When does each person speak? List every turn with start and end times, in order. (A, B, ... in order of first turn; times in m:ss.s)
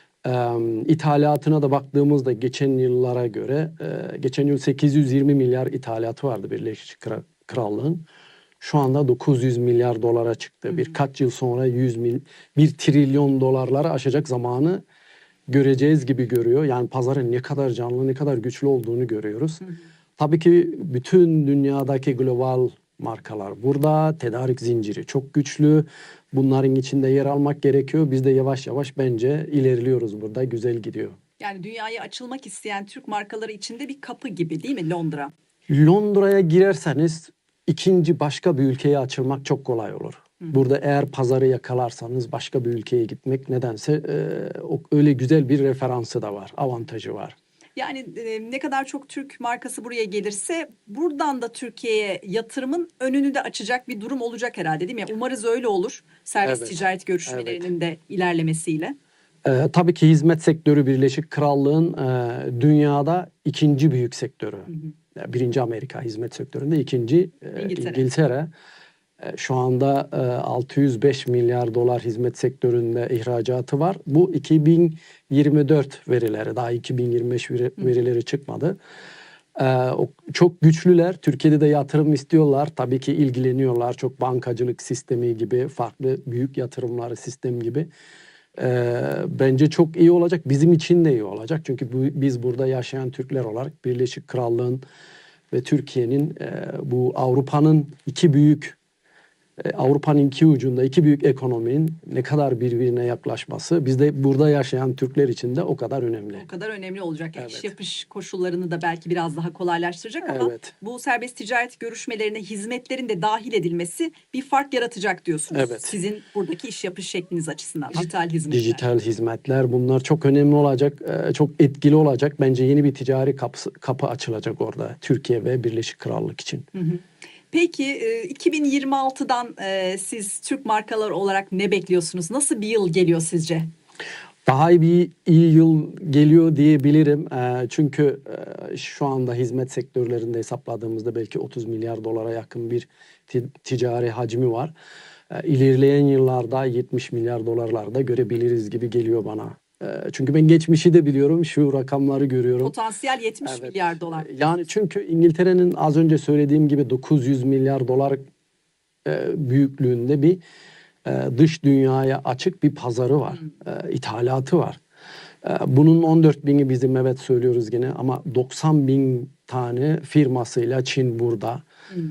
0:00.2-0:08.0 A
0:08.6-0:14.8 A
0:15.5-0:19.6 A
0:20.2-0:31.2 A
0:31.4-0:35.3 B
0:35.7-0:47.4 A
0:47.8-0:59.0 B
0:56.4-0:57.7 A
0:59.4-1:08.5 A
1:07.6-1:08.0 B
1:09.2-1:18.8 A
1:19.6-1:27.9 A
1:28.6-1:34.8 A
1:35.5-1:38.8 A
1:39.6-1:46.5 A
1:46.3-1:58.8 B
1:47.4-1:47.7 A
1:50.2-1:50.7 A
1:55.5-1:55.9 A
1:58.0-2:06.7 A
2:06.8-2:13.7 B
2:14.5-2:24.7 A
2:25.3-2:32.8 A
2:32.6-2:34.3 B
2:33.4-2:38.2 A
2:39.0-2:40.4 A
2:41.0-2:44.8 A
2:45.4-2:51.6 A